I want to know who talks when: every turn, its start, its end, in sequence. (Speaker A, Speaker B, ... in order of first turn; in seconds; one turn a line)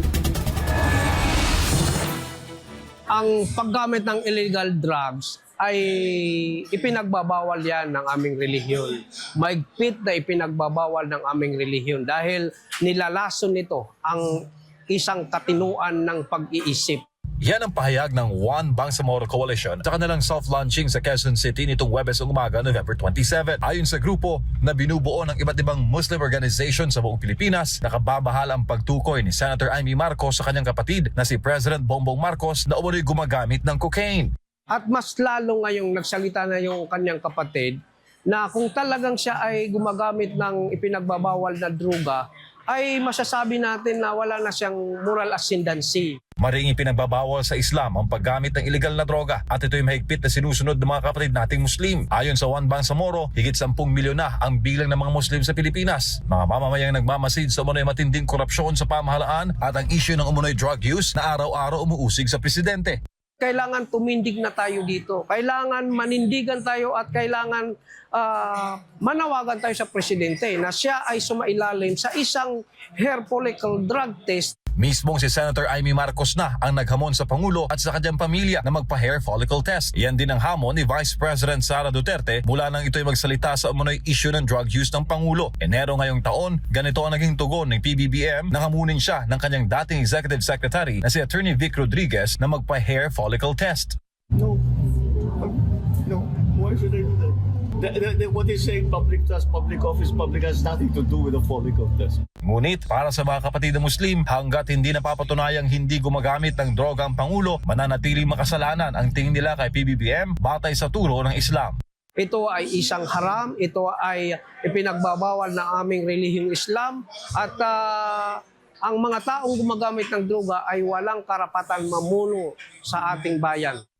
Speaker A: 3.1-17.0
Speaker B: 17.4-34.3
Speaker A: 34.7-37.8
Speaker A: 38.3-46.2
Speaker B: 46.4-63.0
Speaker A: 63.4-74.5
Speaker B: 74.8-94.0
Speaker C: 94.4-94.6
Speaker C: 95.3-102.2
Speaker B: 102.4-111.8
Speaker A: 112.2-123.8